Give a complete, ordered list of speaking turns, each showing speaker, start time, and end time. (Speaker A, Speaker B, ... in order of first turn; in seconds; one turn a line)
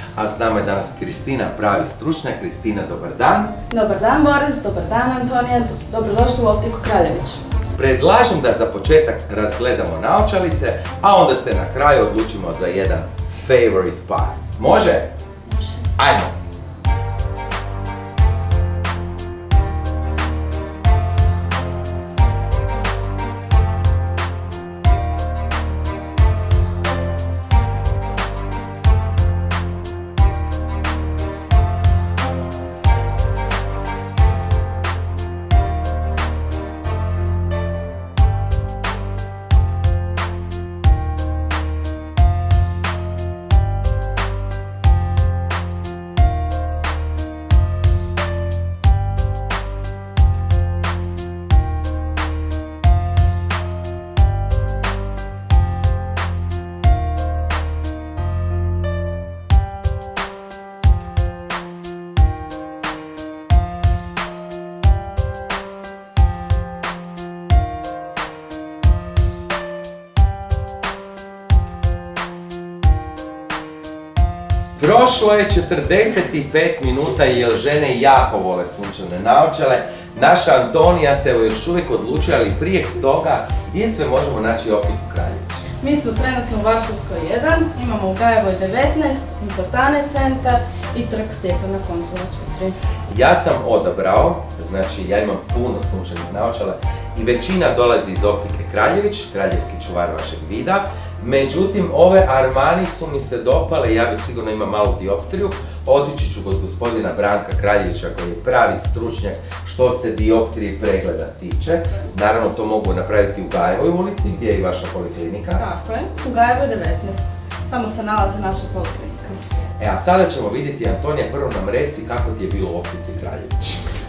Speaker A: 0.1-3.5
Speaker B: 3.7-7.4
Speaker A: 7.8-15.1
Speaker A: 16.0-16.3
Speaker A: 74.8-85.6
Speaker B: 85.8-92.7
Speaker A: 93.1-115.6
Speaker B: 115.6-119.4
Speaker A: 119.8-123.8